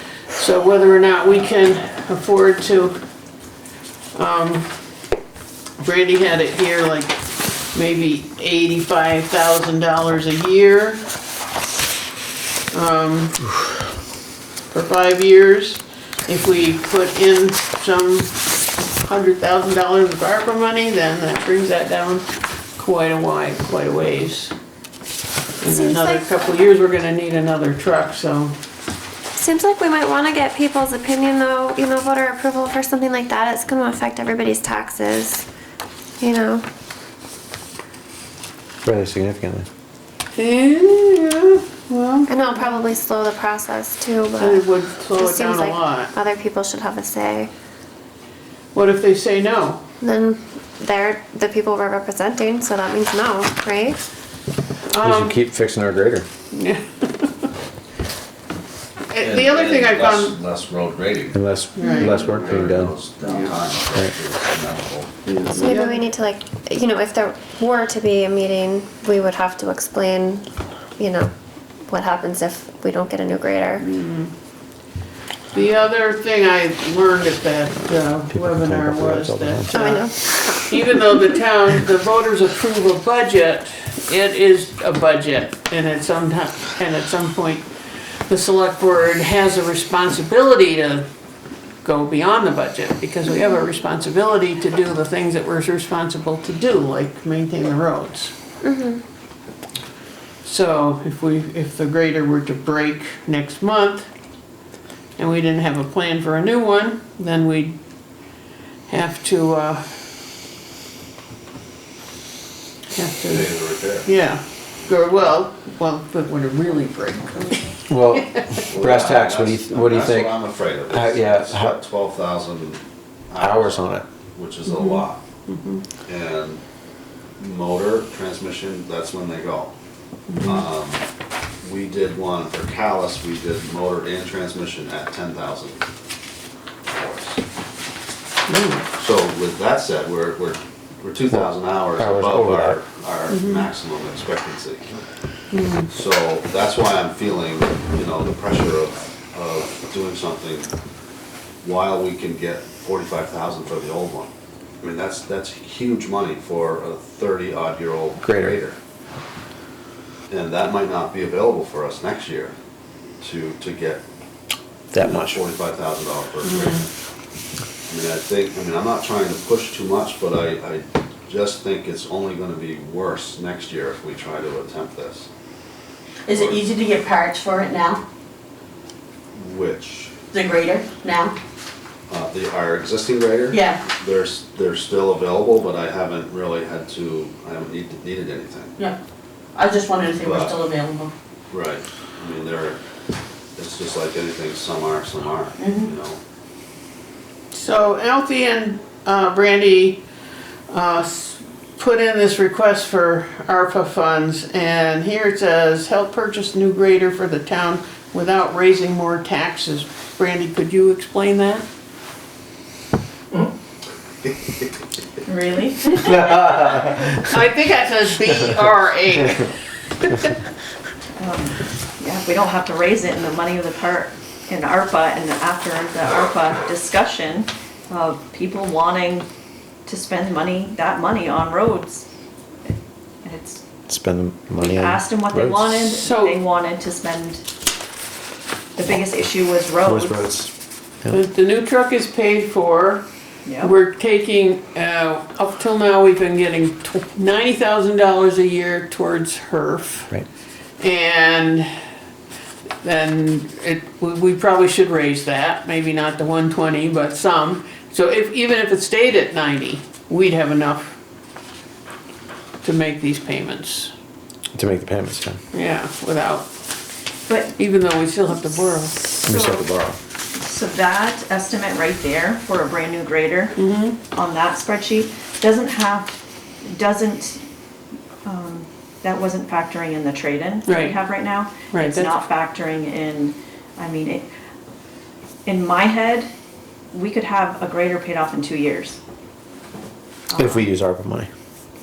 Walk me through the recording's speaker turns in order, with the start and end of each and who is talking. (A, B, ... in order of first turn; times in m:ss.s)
0:00.4-0:03.0 A
0:04.1-0:04.8 A
0:05.8-0:07.2 A
0:07.7-0:11.0 A
0:12.7-0:13.5 A
0:14.7-0:18.4 A
0:19.0-0:24.5 A
0:25.6-0:28.6 A
0:25.7-0:26.5 B
0:29.4-0:35.5 B
0:36.2-0:36.6 B
0:38.8-0:39.7 C
0:40.4-0:42.7 A
0:42.3-0:47.5 B
0:44.4-0:46.1 A
0:48.7-0:49.8 A
0:50.0-0:54.1 B
0:54.9-0:55.4 A
0:55.0-0:56.3 C
0:56.5-0:57.3 A
0:59.1-1:00.4 A
0:59.2-1:01.4 D
1:01.3-1:02.9 C
1:01.8-1:02.2 A
1:02.0-1:05.2 D
1:05.3-1:06.0 A
1:05.5-1:11.3 B
1:11.9-1:13.8 B
1:13.8-1:14.3 A
1:15.5-1:27.7 A
1:18.3-1:20.0 C
1:19.7-1:20.8 B
1:28.3-1:31.1 A
1:31.8-1:38.3 A
1:38.6-1:39.0 B
1:40.4-1:44.1 A
1:45.2-1:47.8 A
1:48.9-1:49.9 A
1:52.9-1:57.6 A
1:53.3-1:54.1 D
1:57.9-2:01.8 C
1:58.2-1:58.4 A
1:58.6-2:05.2 D
2:03.4-2:04.0 C
2:04.7-2:05.8 A
2:06.1-2:06.6 D
2:07.4-2:09.7 D
2:10.3-2:10.6 A
2:10.4-2:11.0 D
2:11.6-2:15.8 D
2:16.9-2:17.4 D
2:18.5-2:18.8 A
2:19.0-2:24.9 D
2:21.3-2:22.8 C
2:23.3-2:23.7 A
2:25.5-2:25.9 A
2:25.9-2:30.7 D
2:31.6-2:34.3 D
2:34.8-2:38.8 D
2:38.2-2:38.6 C
2:40.3-2:42.6 D
2:43.2-2:44.0 D
2:44.9-2:45.4 C
2:45.0-2:46.9 D
2:46.4-2:46.8 A
2:47.9-2:55.3 D
2:56.3-2:58.0 E
2:56.3-2:56.7 D
2:59.3-3:00.1 D
3:00.3-3:01.3 E
3:02.1-3:08.8 D
3:09.6-3:11.1 E
3:10.1-3:10.6 D
3:11.5-3:12.8 D
3:13.6-3:16.2 D
3:17.5-3:20.0 A
3:20.7-3:31.6 A
3:35.2-3:36.4 F
3:36.1-3:37.3 C
3:37.2-3:40.3 A
3:41.2-3:49.3 F
3:49.9-3:52.1 F
3:53.2-3:53.6 F
3:53.9-3:55.7 C
3:54.6-3:57.4 F
3:55.9-3:56.4 A
3:58.8-4:00.2 F
3:59.8-4:01.2 C
4:01.1-4:03.0 A
4:03.4-4:03.7 F
4:03.6-4:10.1 A
4:10.8-4:11.7 A
4:12.8-4:21.0 A
4:22.6-4:23.9 A
4:24.5-4:25.4 C
4:25.5-4:26.5 A
4:27.3-4:27.6 F
4:27.6-4:29.0 A
4:29.2-4:29.6 F
4:29.2-4:30.0 C
4:30.4-4:37.4 F
4:33.6-4:34.0 A
4:38.2-4:44.3 F
4:41.7-4:42.1 A
4:45.4-4:46.3 F
4:46.9-4:49.0 F
4:50.3-4:50.6 F
4:50.3-4:51.3 C